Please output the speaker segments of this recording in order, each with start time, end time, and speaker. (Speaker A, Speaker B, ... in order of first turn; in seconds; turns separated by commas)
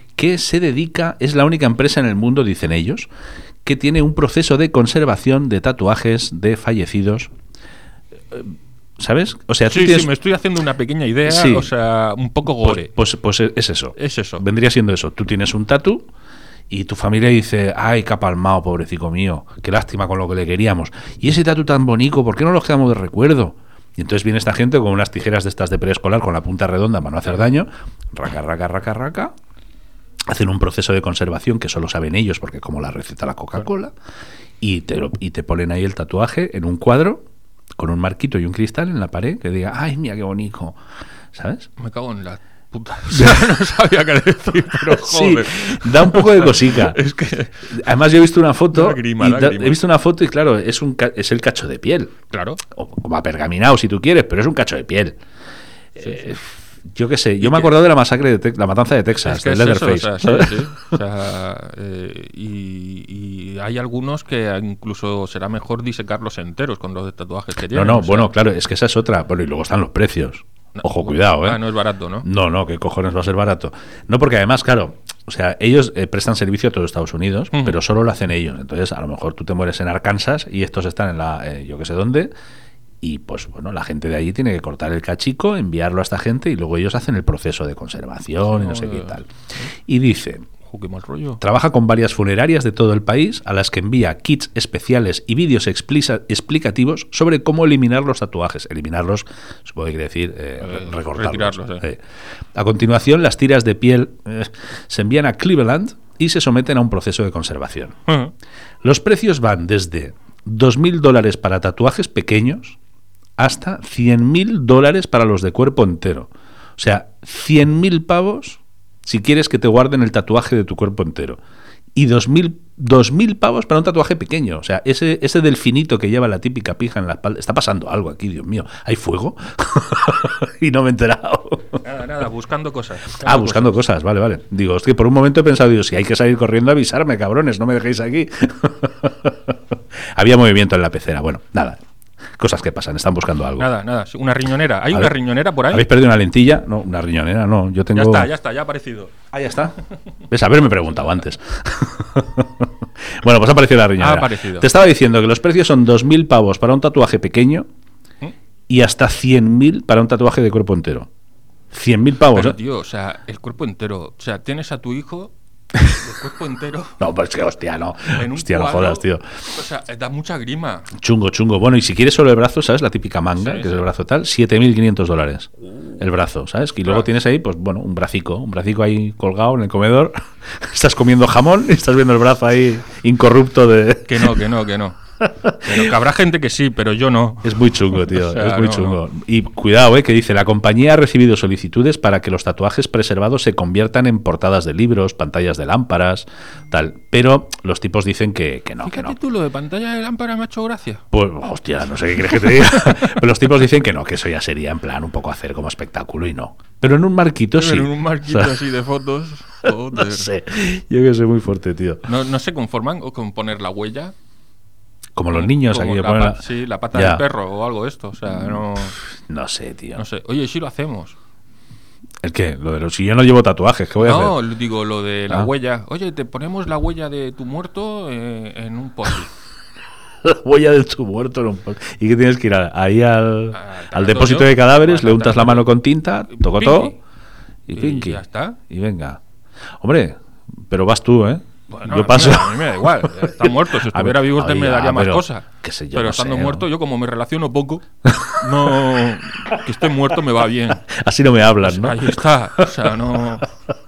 Speaker A: 0.2-3.1, Speaker A: 3.6-7.3, Speaker A: 8.3-10.1, Speaker B: 9.7-12.9, Speaker A: 11.2-11.7, Speaker A: 12.6-16.1, Speaker B: 14.0-14.4, Speaker A: 16.7-29.3, Speaker A: 30.3-33.9, Speaker A: 34.6-37.2, Speaker A: 37.8-40.8, Speaker A: 41.3-41.7, Speaker B: 41.8-47.5, Speaker A: 43.1-43.4, Speaker A: 44.8-47.0, Speaker A: 47.7-52.1, Speaker B: 48.7-49.8, Speaker B: 52.3-52.6, Speaker A: 52.7-55.2, Speaker A: 56.0-60.7, Speaker B: 56.0-56.4, Speaker B: 57.4-57.7, Speaker B: 59.2-68.3, Speaker A: 67.7-71.6, Speaker B: 70.8-72.2, Speaker A: 72.2-82.3, Speaker A: 83.0-89.2, Speaker B: 88.5-89.6, Speaker A: 89.9-90.5, Speaker B: 90.6-91.4, Speaker A: 91.4-102.0, Speaker B: 100.6-101.8, Speaker A: 102.5-108.0, Speaker A: 108.8-112.8, Speaker A: 113.4-121.4, Speaker A: 122.0-131.8, Speaker B: 131.8-133.8, Speaker A: 133.2-139.6, Speaker A: 140.1-141.8, Speaker A: 142.4-143.7, Speaker B: 143.6-145.9, Speaker A: 145.7-148.3, Speaker B: 147.9-149.1, Speaker A: 149.3-149.8, Speaker A: 150.3-157.7, Speaker B: 154.0-154.7, Speaker A: 158.7-161.1, Speaker A: 161.7-162.6, Speaker B: 162.3-165.3, Speaker B: 165.9-167.0, Speaker A: 167.0-169.2, Speaker B: 168.1-170.9, Speaker A: 170.9-184.3, Speaker B: 173.4-173.8, Speaker B: 184.1-185.0, Speaker A: 185.2-185.9, Speaker B: 185.6-189.0, Speaker A: 187.4-199.2, Speaker B: 198.8-201.0, Speaker A: 201.1-208.6, Speaker B: 207.6-210.3, Speaker A: 209.7-212.1, Speaker B: 212.1-214.1, Speaker A: 215.2-217.2, Speaker B: 215.3-218.9, Speaker A: 218.3-220.0, Speaker B: 219.9-221.2, Speaker A: 222.2-224.4, Speaker B: 224.0-229.3, Speaker A: 230.2-236.9, Speaker B: 233.5-235.7, Speaker B: 236.4-236.9, Speaker A: 237.7-239.2, Speaker B: 237.8-238.6, Speaker A: 239.8-246.7, Speaker B: 241.7-247.8, Speaker A: 248.0-248.7, Speaker B: 248.4-250.8, Speaker A: 249.4-249.7, Speaker A: 250.9-253.0, Speaker B: 251.6-253.5